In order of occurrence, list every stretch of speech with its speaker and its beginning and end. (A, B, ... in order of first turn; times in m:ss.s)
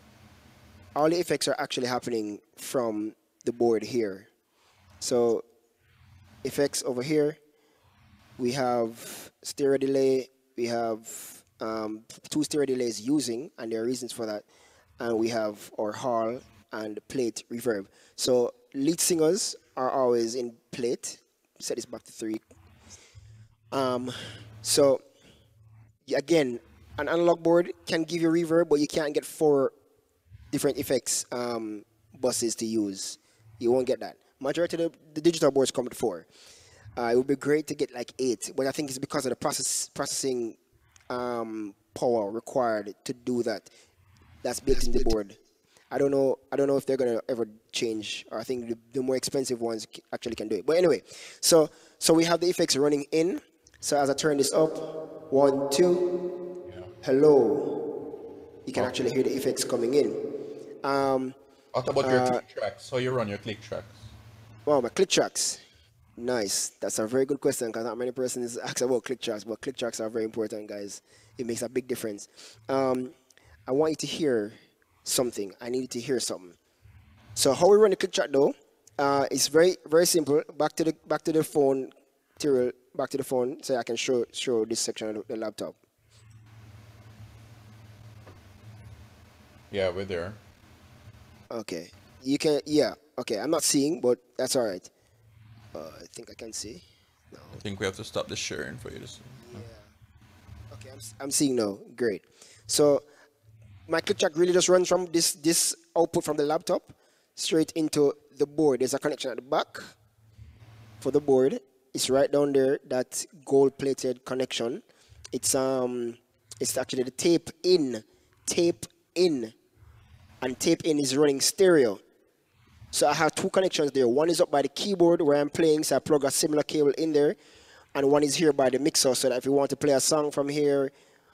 0:00.9-0:04.3 A
0:05.0-0:05.4 A
0:06.4-0:07.4 A
0:08.4-0:14.4 A
0:15.0-0:22.4 A
0:23.7-0:25.0 A
0:26.1-0:29.7 A
0:30.5-0:36.3 A
0:37.0-0:40.6 A
0:41.1-0:43.7 A
0:44.4-0:45.4 A
0:45.9-0:56.0 A
0:56.6-0:56.9 B
0:57.0-0:57.8 A
0:58.6-1:00.2 A
1:00.8-1:01.3 A
1:01.7-1:04.0 B
1:02.0-1:02.4 A
1:04.6-1:05.6 A
1:06.2-1:13.1 A
1:13.7-1:14.5 A
1:15.0-1:16.6 A
1:17.4-1:25.7 A
1:29.7-1:30.4 B
1:31.5-1:34.9 A
1:35.7-1:37.6 A
1:37.6-1:39.6 B
1:39.4-1:39.9 A
1:40.7-1:43.0 A
1:43.9-1:49.9 A
1:51.0-1:59.5 A
2:00.4-2:02.0 A
2:02.9-2:07.4 A
2:07.9-2:10.9 A